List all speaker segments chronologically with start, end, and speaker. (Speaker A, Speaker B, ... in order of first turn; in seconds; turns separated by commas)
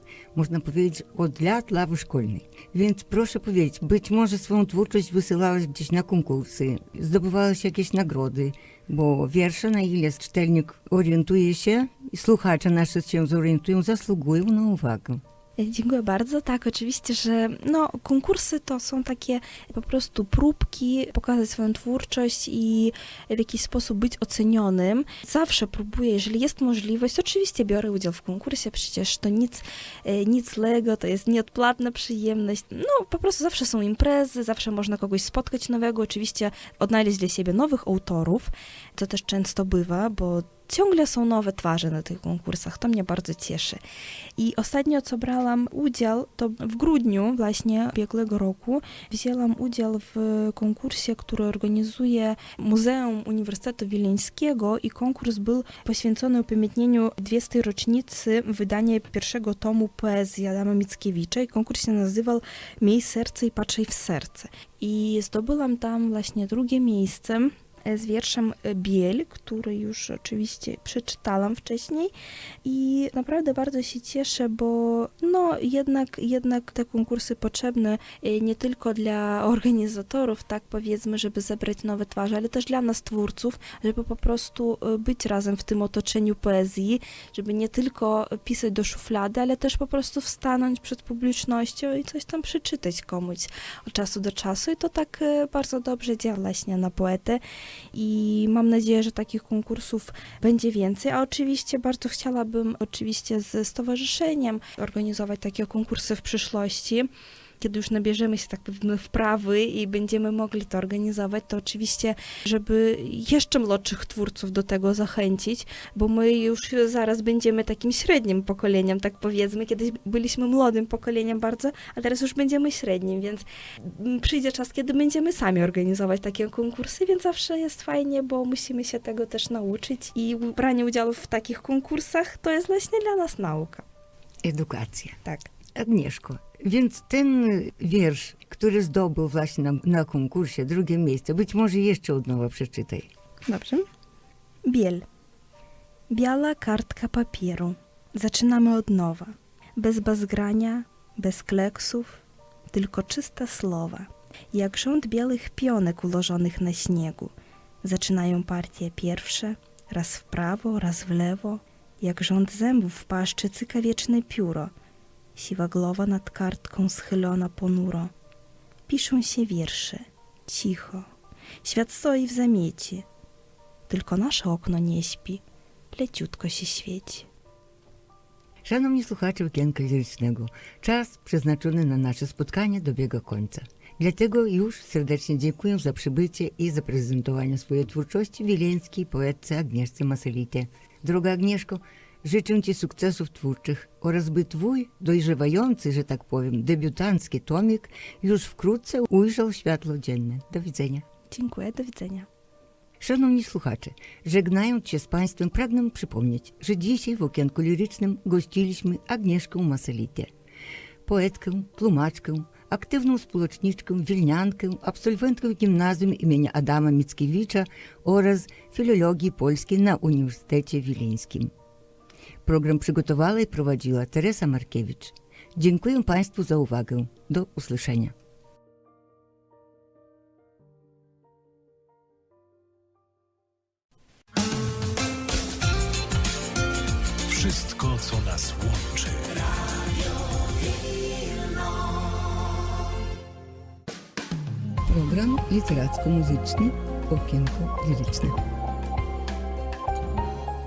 Speaker A: 0.3-15.2, Speaker B: 15.6-43.8, Speaker B: 44.4-72.1, Speaker B: 72.6-97.4, Speaker B: 97.9-107.1, Speaker B: 107.6-133.8, Speaker A: 134.4-135.2, Speaker B: 135.2-135.5, Speaker A: 135.7-143.1, Speaker B: 143.4-143.8, Speaker B: 144.6-145.0, Speaker B: 146.1-164.7, Speaker B: 165.3-168.1, Speaker B: 168.9-171.1, Speaker B: 171.6-173.1, Speaker B: 173.9-177.3, Speaker A: 178.6-201.0, Speaker B: 201.3-202.3, Speaker A: 203.0-210.3, Speaker A: 211.1-221.5, Speaker A: 222.4-228.1, Speaker C: 237.2-239.5, Speaker A: 244.8-248.4